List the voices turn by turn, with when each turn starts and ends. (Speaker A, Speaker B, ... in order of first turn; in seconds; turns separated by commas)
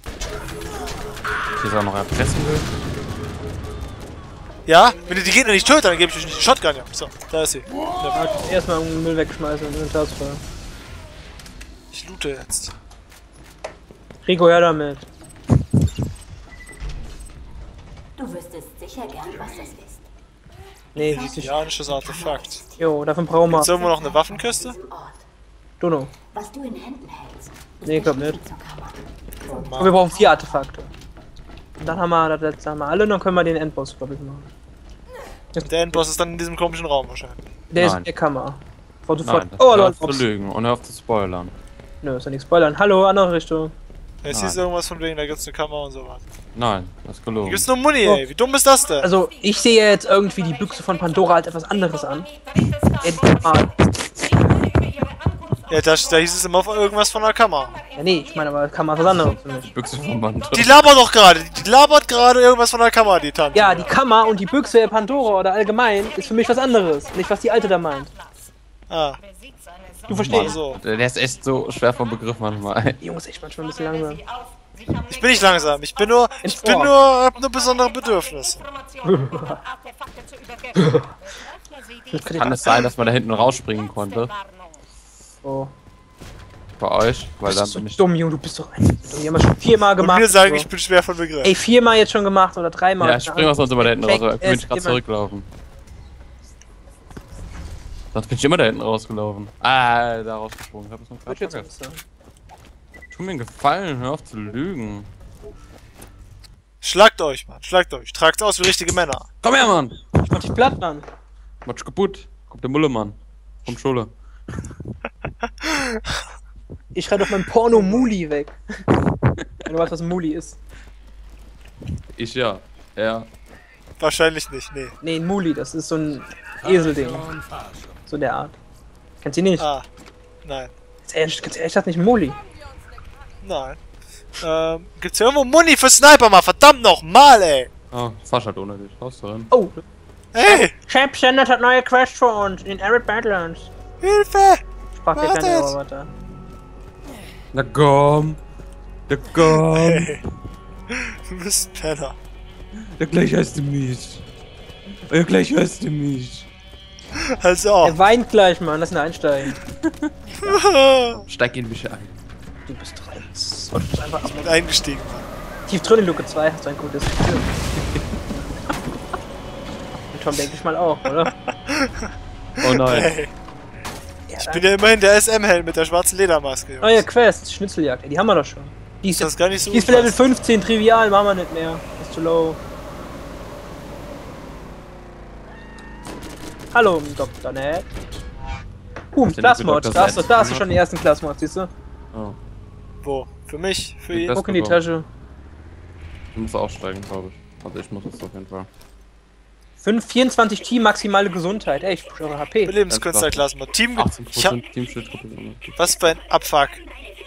Speaker A: 1.5-2.7, Speaker B: 4.7-8.2, Speaker C: 8.1-10.4, Speaker B: 11.9-12.7, Speaker C: 14.2-15.1, Speaker D: 18.2-20.0, Speaker C: 20.9-21.5, Speaker B: 20.9-22.6, Speaker D: 21.1-22.9, Speaker C: 22.8-23.7, Speaker B: 23.5-24.8, Speaker D: 23.5-25.2, Speaker C: 25.8-26.1, Speaker D: 26.3-30.7, Speaker C: 27.8-28.4, Speaker B: 29.4-30.0, Speaker C: 29.8-30.9, Speaker C: 31.8-34.5, Speaker C: 35.5-36.0, Speaker B: 35.6-37.4, Speaker C: 37.7-40.2, Speaker A: 37.8-38.1, Speaker A: 39.2-41.5, Speaker C: 42.0-43.7, Speaker B: 44.2-46.2, Speaker A: 44.3-44.6, Speaker A: 46.5-47.7, Speaker B: 47.4-49.1, Speaker C: 49.0-52.3, Speaker C: 53.0-53.8, Speaker B: 55.7-57.8, Speaker C: 58.0-59.7, Speaker A: 59.0-60.8, Speaker B: 60.5-63.9, Speaker C: 63.5-68.1, Speaker B: 68.9-69.2, Speaker C: 70.1-70.6, Speaker A: 70.1-73.0, Speaker B: 70.2-70.8, Speaker C: 73.0-74.2, Speaker B: 75.0-78.7, Speaker C: 76.4-76.9, Speaker C: 79.0-79.6, Speaker C: 80.7-81.1, Speaker C: 82.1-82.9, Speaker A: 82.2-84.3, Speaker C: 85.4-85.7, Speaker A: 86.8-88.0, Speaker C: 87.5-90.7, Speaker B: 90.0-91.5, Speaker C: 91.4-95.0, Speaker A: 93.0-95.5, Speaker A: 98.1-101.7, Speaker C: 101.3-102.0, Speaker A: 103.1-105.1, Speaker B: 106.8-109.3, Speaker A: 109.4-110.0, Speaker C: 110.3-111.0, Speaker A: 111.6-114.1, Speaker B: 115.6-116.2, Speaker C: 116.9-118.8, Speaker B: 117.7-118.1, Speaker C: 119.6-120.6, Speaker A: 122.2-123.3, Speaker B: 124.0-125.0, Speaker C: 125.0-127.3, Speaker C: 128.1-128.6, Speaker C: 129.2-129.7, Speaker B: 129.6-129.8, Speaker B: 130.4-130.7, Speaker C: 131.0-132.4, Speaker B: 133.4-133.8, Speaker B: 134.4-137.7, Speaker A: 137.9-139.5, Speaker C: 139.5-139.8, Speaker B: 140.3-140.7, Speaker C: 140.4-143.7, Speaker B: 144.0-144.6, Speaker C: 145.0-146.1, Speaker B: 145.1-145.8, Speaker A: 147.5-148.4, Speaker A: 149.1-150.2, Speaker B: 149.7-150.2, Speaker B: 150.9-152.2, Speaker A: 153.0-154.2, Speaker A: 155.1-156.5, Speaker B: 157.2-158.0, Speaker C: 157.8-159.6, Speaker A: 159.8-160.1, Speaker B: 160.4-161.3, Speaker A: 161.2-162.1, Speaker C: 162.7-164.6, Speaker B: 164.3-165.3, Speaker C: 165.7-167.5, Speaker A: 167.8-168.0, Speaker C: 170.1-171.3, Speaker B: 171.5-173.3, Speaker A: 172.6-173.1, Speaker C: 174.3-174.6, Speaker B: 174.4-177.1, Speaker C: 176.8-182.6, Speaker B: 179.1-180.2, Speaker C: 186.7-188.0, Speaker C: 189.1-191.7, Speaker A: 189.3-190.7, Speaker B: 193.0-194.4, Speaker A: 194.1-194.8, Speaker C: 194.3-195.1, Speaker A: 196.3-198.7, Speaker C: 199.8-202.7, Speaker B: 202.6-204.6, Speaker A: 202.9-205.8, Speaker B: 205.8-206.8